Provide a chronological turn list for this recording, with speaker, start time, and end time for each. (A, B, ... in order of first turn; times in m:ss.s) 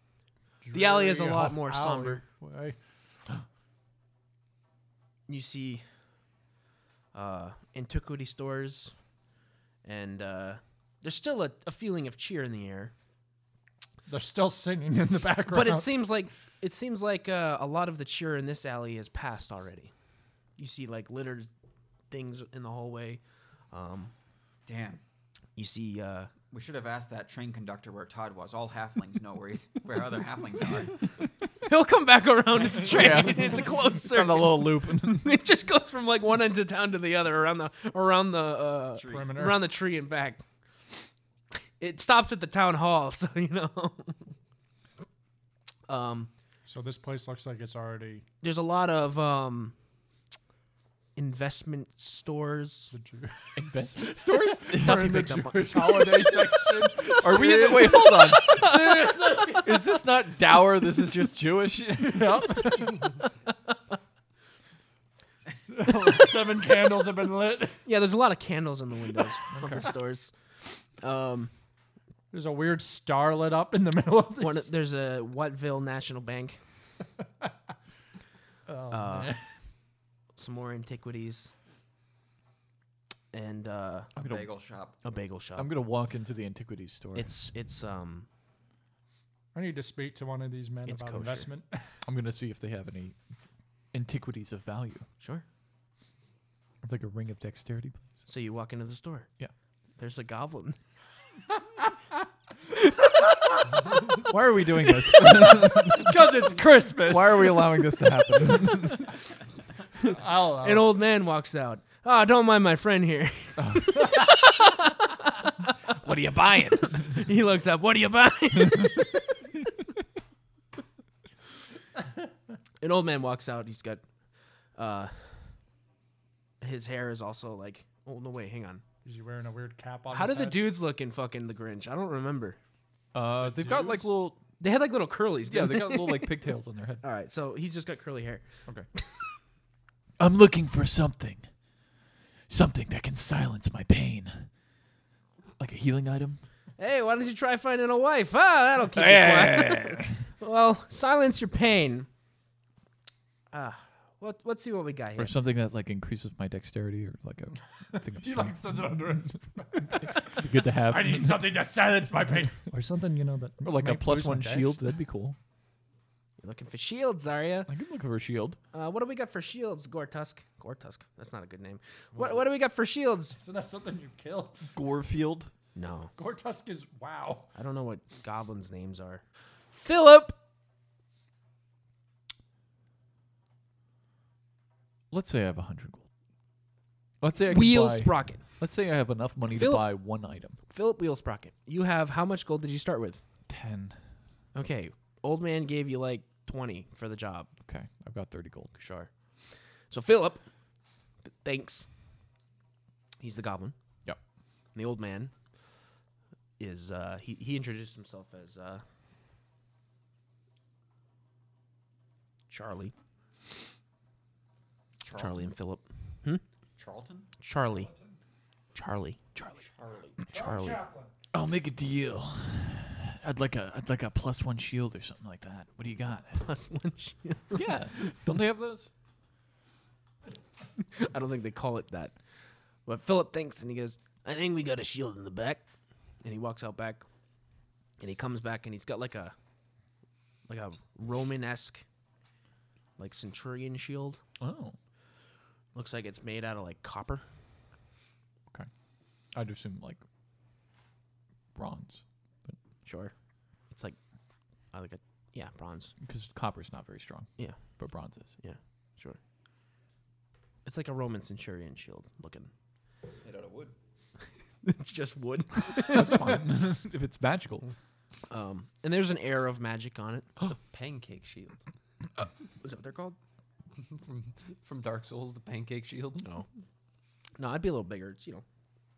0:00.6-0:02.8 A
0:00.7-0:02.2 B
0:05.3-0:05.8 B
0:07.1-0:08.9 B
0:09.8-0:12.9 B
0:14.1-0:15.9 A
0:15.5-0:19.9 B
0:20.6-0:21.5 B
0:22.1-0:24.1 B
0:24.6-0:25.0 C
0:25.6-0:26.3 B
0:26.5-0:31.0 C
0:31.6-0:40.4 B
0:32.8-0:35.3 D
0:39.0-0:39.3 C
0:39.0-0:39.6 A
0:41.8-0:44.3 B
0:45.9-0:46.3 B
0:46.6-0:48.2 A
0:48.4-0:49.7 B
0:51.2-0:52.9 B
0:52.9-0:59.8 A
0:53.6-1:02.8 D
0:54.7-0:56.5 B
0:57.8-0:59.4 B
1:02.0-1:03.2 A
1:05.5-1:07.8 A
1:07.8-1:11.5 B
1:09.6-1:09.8 D
1:12.3-1:14.7 A
1:14.4-1:16.6 B
1:18.7-1:19.4 A
1:18.9-1:19.4 B
1:20.4-1:21.5 B
1:23.3-1:24.1 B
1:24.2-1:25.0 C
1:24.2-1:24.5 D
1:25.0-1:25.7 B
1:25.6-1:27.4 D
1:27.1-1:28.3 B
1:29.5-1:31.9 A
1:30.8-1:31.5 B
1:32.0-1:33.2 D
1:33.9-1:35.0 D
1:35.2-1:35.4 B
1:36.8-1:38.2 D
1:38.3-1:39.3 B
1:40.0-1:40.8 B
1:44.0-1:46.2 D
1:45.1-1:47.7 A
1:47.0-1:49.1 D
1:50.0-1:59.2 B
1:50.0-1:50.9 A
1:53.6-1:54.3 D
1:56.0-1:57.0 D
2:02.8-2:04.0 B
2:04.8-2:05.4 B
2:06.6-2:08.8 B
2:09.0-2:10.7 A
2:10.1-2:12.6 B
2:13.1-2:14.4 D
2:13.4-2:14.1 A
2:14.6-2:16.4 B
2:15.4-2:17.0 D
2:17.0-2:18.4 B
2:20.2-2:21.5 D
2:22.5-2:24.5 D
2:25.6-2:26.4 D
2:26.8-2:32.1 B
2:28.9-2:30.1 D
2:33.5-2:35.3 B
2:35.2-2:38.9 D
2:38.1-2:44.8 A
2:39.9-2:41.5 D
2:43.6-2:45.4 D
2:46.4-2:47.7 B
2:47.7-2:48.6 D
2:48.7-2:53.4 B
2:53.4-2:54.7 A
2:54.7-2:55.5 D
2:55.7-2:56.1 B
2:56.2-2:57.5 A
2:57.5-2:59.2 B
2:59.7-3:00.4 B
3:05.1-3:06.0 D
3:07.2-3:10.6 D
3:07.5-3:08.4 B
3:09.5-3:10.0 B
3:10.7-3:13.2 B
3:13.5-3:14.0 D
3:14.5-3:17.5 B
3:17.6-3:18.7 D
3:18.7-3:19.3 B
3:19.9-3:20.4 B
3:21.2-3:21.9 B
3:23.2-3:23.7 B
3:24.7-3:25.3 B
3:26.6-3:28.8 B
3:32.5-3:32.9 B
3:35.0-3:35.5 C
3:35.1-3:36.4 B
3:36.8-3:37.3 C
3:37.4-3:37.9 B
3:37.7-3:38.2 A
3:38.7-3:39.6 B
3:39.6-3:40.2 C
3:40.2-3:41.1 A
3:40.3-3:40.8 B
3:41.3-3:46.4 D
3:46.3-3:48.2 B
3:47.5-3:48.9 D
3:50.9-3:52.2 B
3:52.8-3:55.6 B
3:56.2-3:57.0 B
3:58.0-3:59.3 B
4:00.5-4:01.8 B
4:03.0-4:04.2 B
4:04.4-4:04.8 D
4:05.7-4:07.2 B
4:09.3-4:10.0 D
4:11.5-4:12.6 D
4:12.8-4:13.1 B
4:13.6-4:14.0 B
4:14.7-4:15.9 B
4:16.0-4:18.3 D
4:17.4-4:19.2 B
4:20.6-4:22.5 B
4:23.2-4:23.7 C
4:24.6-4:26.4 B
4:25.8-4:27.7 D
4:28.3-4:30.4 B
4:30.7-4:31.5 E
4:32.6-4:33.2 B
4:33.9-4:36.3 E
4:37.4-4:38.4 B